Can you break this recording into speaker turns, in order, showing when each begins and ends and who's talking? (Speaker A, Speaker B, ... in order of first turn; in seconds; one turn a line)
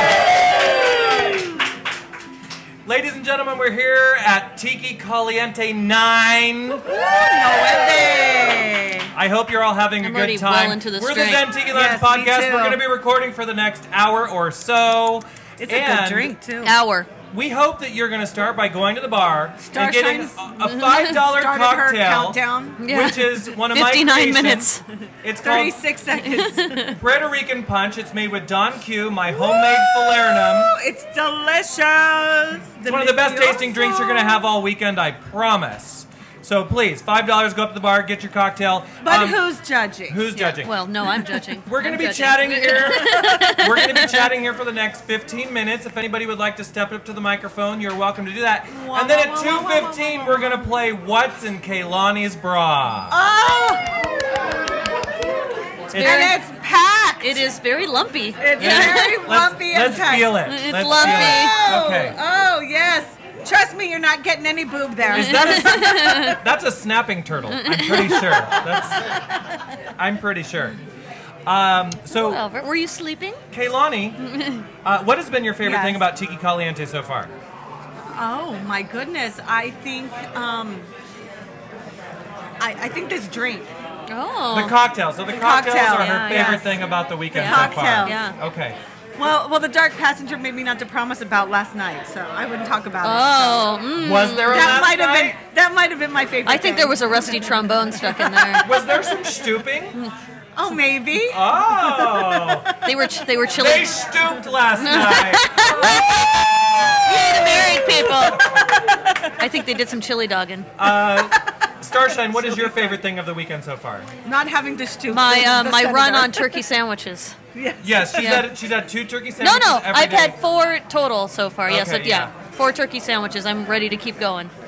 Speaker A: 0.8-1.4
Speaker B: 2.9-6.8
Speaker A: 6.8-9.1
Speaker B: 9.1-16.3
Speaker C: 10.0-11.5
Speaker A: 11.7-12.8
Speaker A: 15.6-16.8
Speaker C: 16.6-17.1
Speaker B: 17.3-24.7
Speaker A: 19.7-20.5
Speaker C: 20.6-21.2
Speaker A: 21.2-22.8
Speaker C: 22.8-24.8
Speaker B: 25.2-25.8
Speaker A: 25.4-26.9
Speaker C: 26.1-27.0
Speaker B: 26.9-30.8
Speaker A: 29.3-34.4
Speaker B: 32.9-39.4
Speaker A: 39.0-40.5
Speaker B: 40.1-40.7
Speaker C: 40.4-44.3
Speaker A: 41.1-41.4
Speaker B: 41.7-53.2
Speaker A: 48.7-50.7
Speaker A: 53.1-53.9
Speaker A: 55.9-57.5
Speaker B: 55.9-56.3
Speaker C: 55.9-56.4
Speaker C: 57.2-59.2
Speaker A: 58.4-66.4
Speaker B: 58.6-62.2
Speaker C: 60.5-61.6
Speaker B: 65.1-69.2
Speaker C: 65.1-66.4
Speaker C: 67.5-68.4
Speaker A: 67.9-69.3
Speaker B: 70.0-70.8
Speaker B: 71.5-72.4
Speaker C: 72.1-73.4
Speaker B: 73.5-74.2
Speaker C: 74.2-74.7
Speaker B: 74.8-77.3
Speaker A: 75.6-76.1
Speaker A: 78.1-80.9
Speaker A: 82.6-83.7
Speaker C: 84.1-84.8
Speaker B: 84.5-88.8
Speaker A: 85.2-86.8
Speaker C: 85.9-86.8
Speaker A: 87.3-88.2
Speaker C: 87.3-88.4
Speaker A: 89.2-93.8
Speaker C: 93.0-94.8
Speaker B: 94.0-95.4
Speaker A: 94.5-98.5
Speaker C: 96.5-98.8
Speaker B: 98.6-100.0
Speaker A: 100.6-102.7
Speaker B: 101.1-102.7
Speaker C: 102.8-104.0
Speaker B: 103.6-105.8
Speaker C: 104.8-106.1
Speaker A: 105.6-106.0
Speaker C: 107.0-108.6
Speaker A: 107.1-109.3
Speaker B: 107.5-108.7
Speaker C: 109.4-110.7
Speaker B: 110.8-114.1
Speaker A: 110.8-111.5
Speaker A: 112.2-112.8
Speaker A: 114.2-116.6
Speaker C: 115.1-117.4
Speaker A: 117.5-118.4
Speaker B: 117.8-120.4
Speaker C: 118.1-118.5
Speaker C: 119.4-124.5
Speaker B: 121.7-122.3